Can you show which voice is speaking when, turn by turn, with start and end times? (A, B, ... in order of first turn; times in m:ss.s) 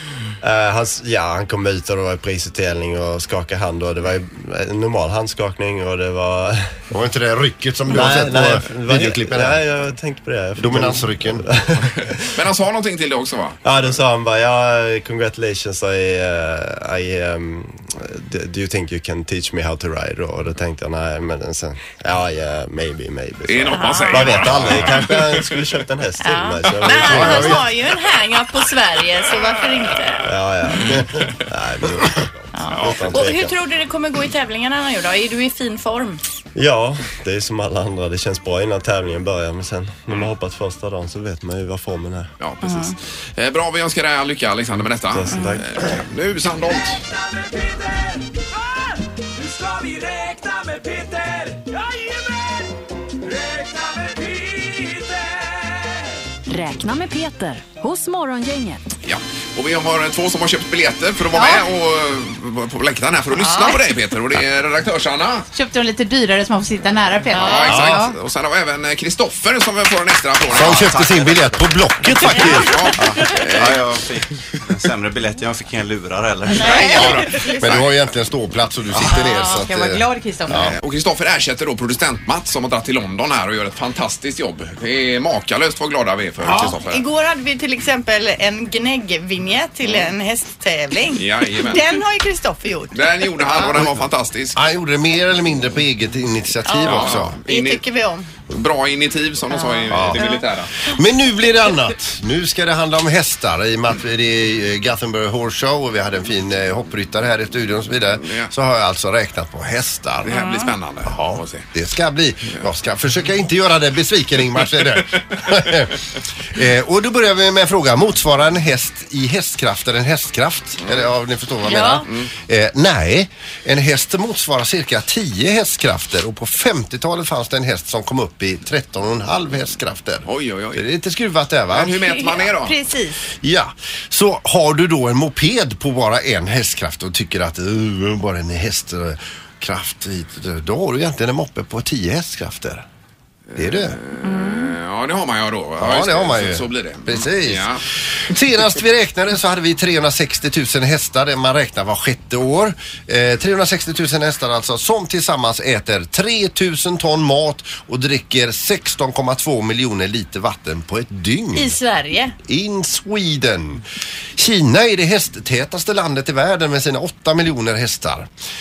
0:00.4-0:06.8 A
0:06.9-0:09.6 B
0:07.9-0:12.1 A
0:10.6-0:11.5 B
0:12.2-0:13.9 C
0:13.6-0:27.7 A
0:23.5-0:25.6 C
0:23.7-0:24.3 D
0:26.2-0:30.3 D
0:26.7-0:27.4 C
0:30.2-0:33.5 A
0:32.5-0:36.2 D
0:32.7-0:33.2 C
0:36.6-0:42.3 A
0:42.4-0:47.0 C
0:42.6-0:43.0 D
0:45.1-0:45.6 A
0:49.4-0:51.6 E
0:53.3-0:55.1 E
0:56.5-0:58.8 F
0:59.0-1:05.5 C
1:01.4-1:01.7 D
1:03.4-1:03.8 D
1:05.5-1:08.2 G
1:07.3-1:07.7 D
1:07.3-1:11.2 C
1:07.7-1:08.0 B
1:10.5-1:12.9 B
1:10.5-1:11.6 H
1:12.3-1:13.8 C
1:13.0-1:17.2 H
1:16.5-1:17.5 D
1:16.5-1:17.7 G
1:16.9-1:17.8 C
1:17.6-1:20.7 B
1:19.0-1:20.7 G
1:20.8-1:27.0 C
1:26.5-1:33.6 D
1:31.2-1:31.8 C
1:32.9-1:34.6 C
1:33.7-1:33.9 B
1:34.6-1:37.4 B
1:36.7-1:38.3 D
1:36.8-1:37.8 C
1:38.5-1:40.8 C
1:39.5-1:40.4 D
1:39.9-1:40.3 B
1:40.8-1:50.3 B
1:50.2-1:51.7 C
1:50.3-1:50.7 D
1:51.7-1:56.0 B
1:56.5-2:12.0 B
2:00.8-2:01.1 C
2:01.7-2:02.0 D
2:10.3-2:10.8 C
2:11.7-2:12.8 C
2:12.0-2:13.2 D
2:13.4-2:22.9 B
2:23.5-2:27.8 C
2:23.6-2:24.0 B
2:24.2-2:24.6 D
2:25.8-2:41.8 B
2:41.6-2:42.4 D
2:42.4-2:43.8 B
2:44.4-2:48.3 B